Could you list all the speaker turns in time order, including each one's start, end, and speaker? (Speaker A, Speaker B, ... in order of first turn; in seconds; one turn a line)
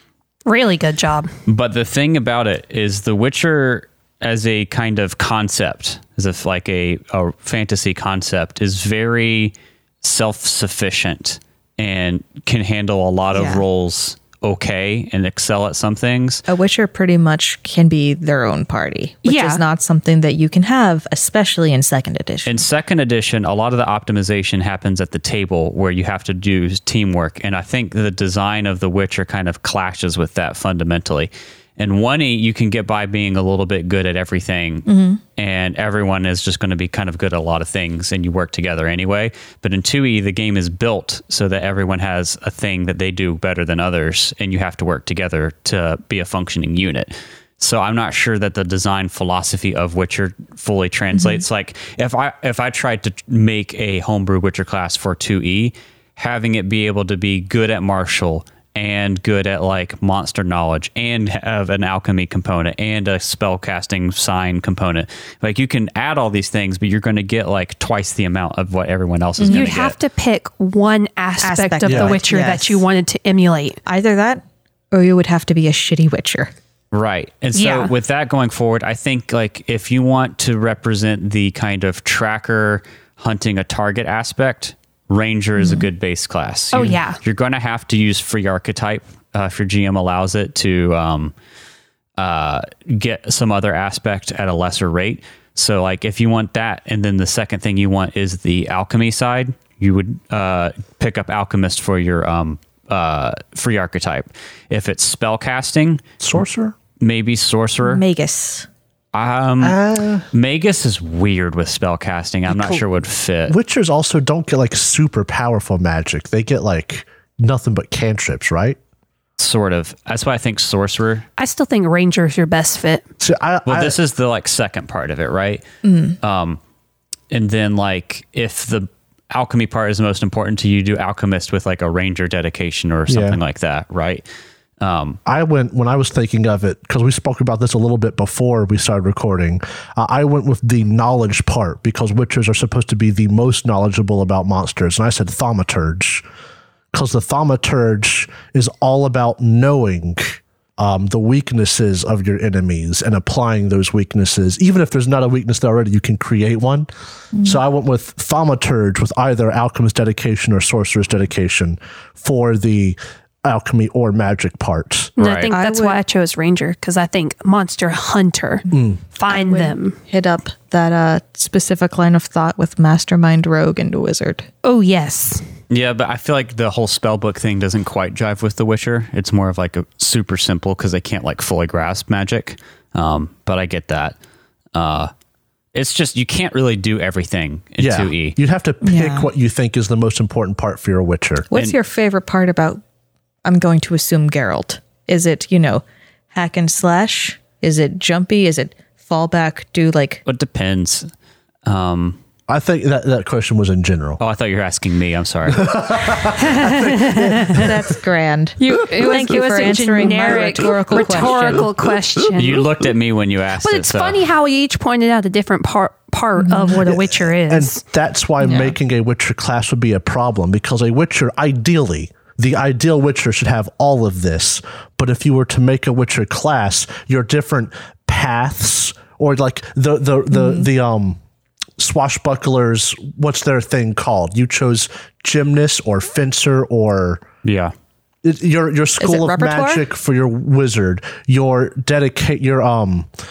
Speaker A: 0.5-1.3
Speaker B: 1.4-16.4
Speaker C: 13.3-13.6
Speaker C: 16.5-22.6
Speaker A: 19.2-19.6
Speaker B: 22.4-70.0
Speaker C: 34.9-35.2
Speaker C: 51.1-51.4
Speaker C: 69.4-69.8
Speaker A: 69.5-73.8
Speaker C: 71.4-72.8
Speaker D: 71.8-72.2
Speaker C: 73.8-76.5
Speaker B: 76.9-91.3
Speaker A: 77.5-77.9
Speaker C: 85.6-85.8
Speaker A: 86.7-87.2
Speaker B: 92.2-106.0
Speaker D: 106.2-106.8
Speaker B: 107.0-108.0
Speaker C: 107.8-108.7
Speaker B: 109.1-109.8
Speaker D: 109.6-110.2
Speaker B: 110.3-113.5
Speaker D: 112.5-112.8
Speaker D: 113.5-118.8
Speaker B: 119.4-121.2
Speaker A: 121.4-123.0
Speaker D: 123.2-124.0
Speaker B: 123.7-125.6
Speaker C: 125.8-126.2
Speaker B: 126.2-126.6
Speaker B: 127.3-134.2
Speaker D: 133.1-133.4
Speaker B: 134.8-135.2
Speaker D: 135.2-146.2
Speaker D: 146.9-156.9
Speaker C: 157.3-157.6
Speaker D: 157.4-165.1
Speaker A: 165.2-168.6
Speaker B: 165.2-165.5
Speaker C: 165.5-166.0
Speaker D: 168.7-169.0
Speaker A: 169.2-170.0
Speaker C: 169.3-174.5
Speaker A: 174.6-175.4
Speaker B: 175.7-184.2
Speaker B: 184.7-185.1
Speaker B: 185.7-188.4
Speaker D: 187.8-191.5
Speaker C: 188.8-189.3
Speaker C: 191.5-192.8
Speaker C: 193.4-200.2
Speaker B: 200.2-201.1
Speaker B: 201.7-202.2
Speaker D: 202.5-204.2
Speaker B: 204.2-205.8
Speaker D: 205.5-207.9
Speaker A: 206.4-207.7
Speaker C: 207.5-211.7
Speaker A: 208.6-212.7
Speaker D: 210.2-211.7
Speaker B: 212.3-214.2
Speaker A: 213.6-217.8
Speaker C: 216.4-216.8
Speaker D: 216.8-231.2
Speaker C: 218.4-218.8
Speaker C: 230.3-230.7
Speaker D: 231.8-237.2
Speaker B: 237.4-237.7
Speaker D: 238.2-243.1
Speaker C: 239.0-239.8